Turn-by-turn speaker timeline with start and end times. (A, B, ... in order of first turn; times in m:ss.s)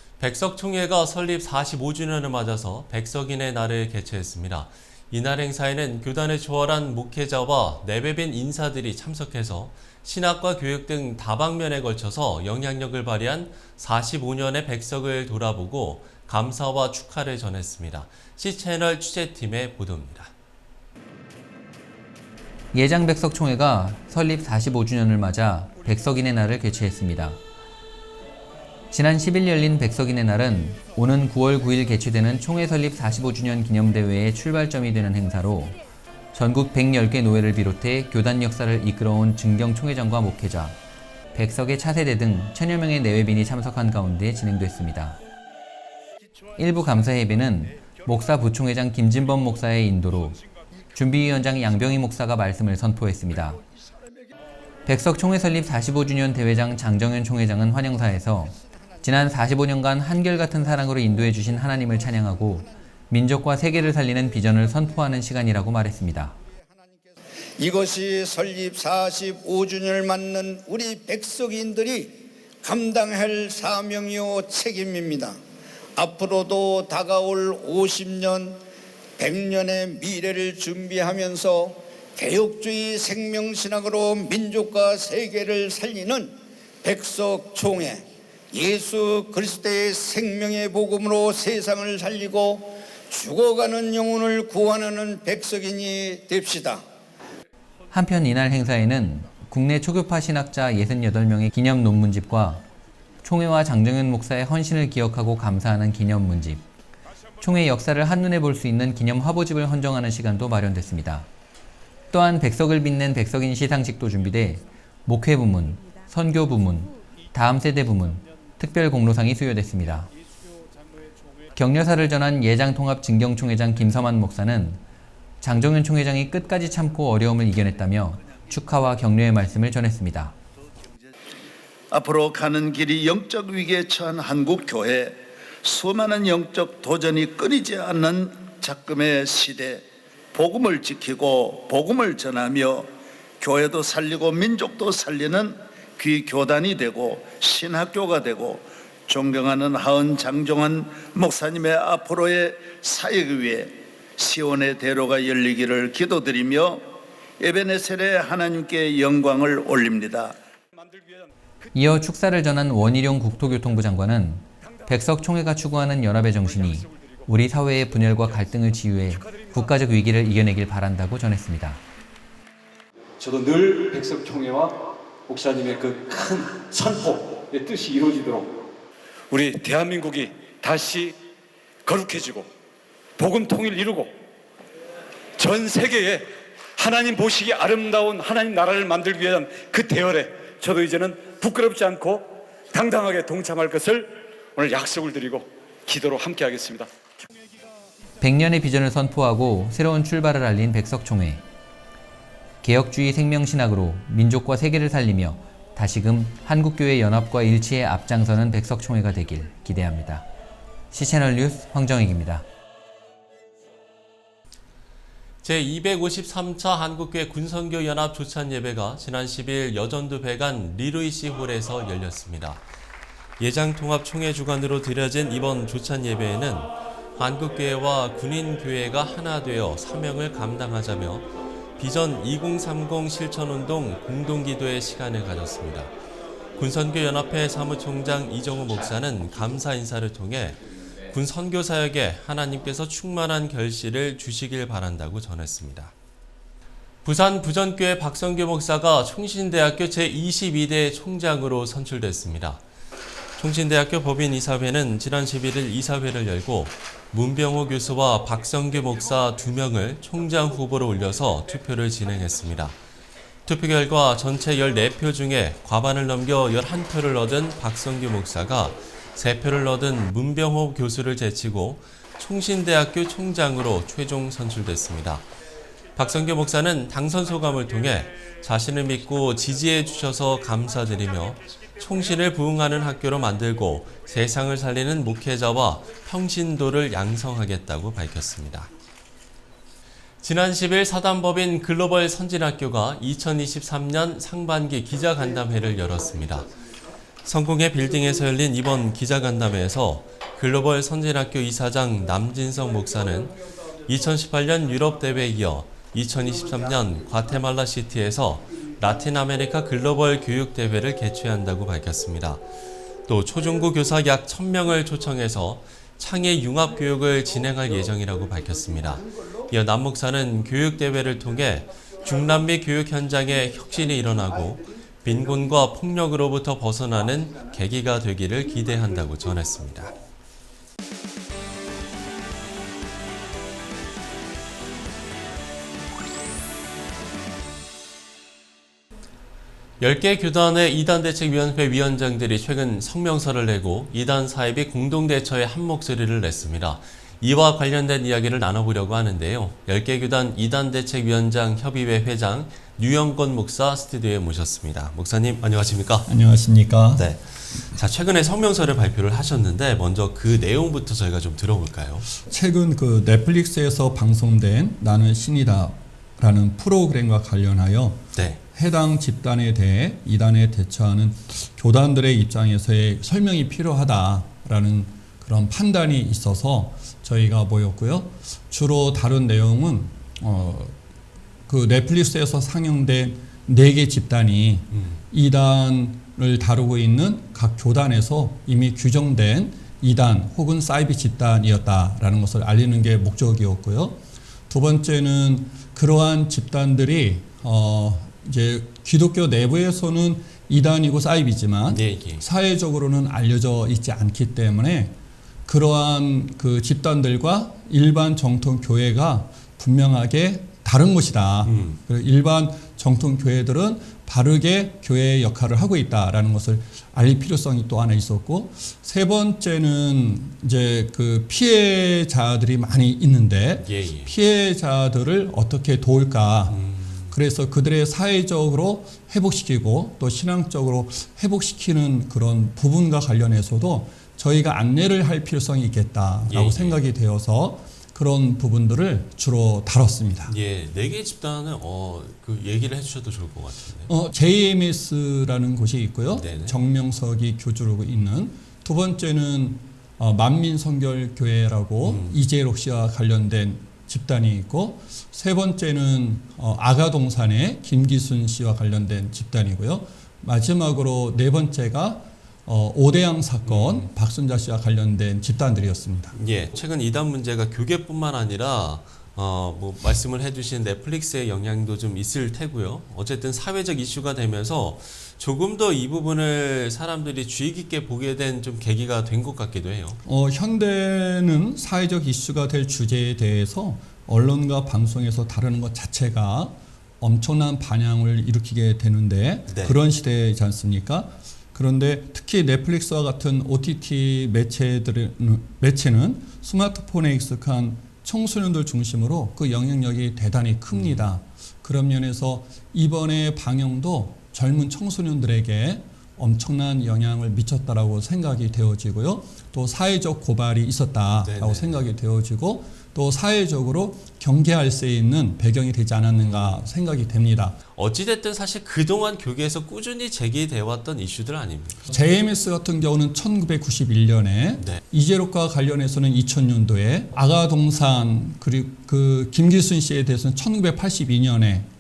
0:00.2-0:20.3 A
0:22.7-0:27.4 B
0:28.9-0:35.8 B
0:36.3-0:40.8 B
0:41.3-0:45.2 B
0:46.6-0:50.4 B
0:50.9-0:53.6 B
0:54.9-1:06.4 B
1:07.6-1:15.4 C
1:16.0-1:18.6 C
1:19.2-1:36.8 C
1:37.9-1:42.6 B
1:43.2-1:46.6 B
1:47.4-1:51.3 B
1:52.1-2:00.1 B
2:01.6-2:04.8 B
2:05.4-2:10.4 B
2:11.9-2:36.9 D
2:37.4-2:40.4 D
2:40.8-2:41.3 E
2:41.7-2:51.8 B
2:46.6-2:47.2 E
2:49.2-2:49.5 E
2:53.2-2:58.5 E
2:59.3-3:01.2 E
3:01.9-3:02.5 E
3:03.2-3:04.1 E
3:05.4-3:16.9 E
3:18.2-3:21.4 B
3:22.6-3:30.3 B
3:30.9-3:32.4 B
3:35.4-3:42.6 A
3:43.4-3:55.9 A
3:56.6-4:05.9 A
4:07.0-4:12.6 A
4:13.4-4:22.8 A
4:23.5-4:35.3 A
4:36.0-4:48.7 A
4:50.2-4:56.6 A
4:57.2-5:12.4 A
5:13.1-5:29.9 A
5:39.8-5:56.1 A
5:56.1-5:57.1 F
5:57.0-6:02.1 A
6:02.2-6:08.0 F
6:08.2-6:08.4 A
6:08.6-6:20.8 F
6:21.5-6:34.0 F
6:24.7-6:25.0 A
6:34.5-6:44.9 F
6:41.7-6:42.2 A
6:45.5-7:06.6 F
6:51.4-6:51.8 A
7:03.6-7:04.1 A
7:06.5-7:07.1 A
7:07.1-7:20.3 F
7:16.3-7:16.8 A
7:20.3-7:23.9 A
7:23.9-7:46.1 F
7:26.1-7:26.6 A
7:31.8-7:32.2 A
7:43.4-7:43.9 A
7:46.1-8:00.0 A
8:00.0-8:37.6 F
8:09.5-8:09.8 A
8:20.7-8:21.1 A
8:31.2-8:31.8 A
8:36.2-8:36.7 A
8:37.7-8:41.8 A
8:41.9-8:51.7 F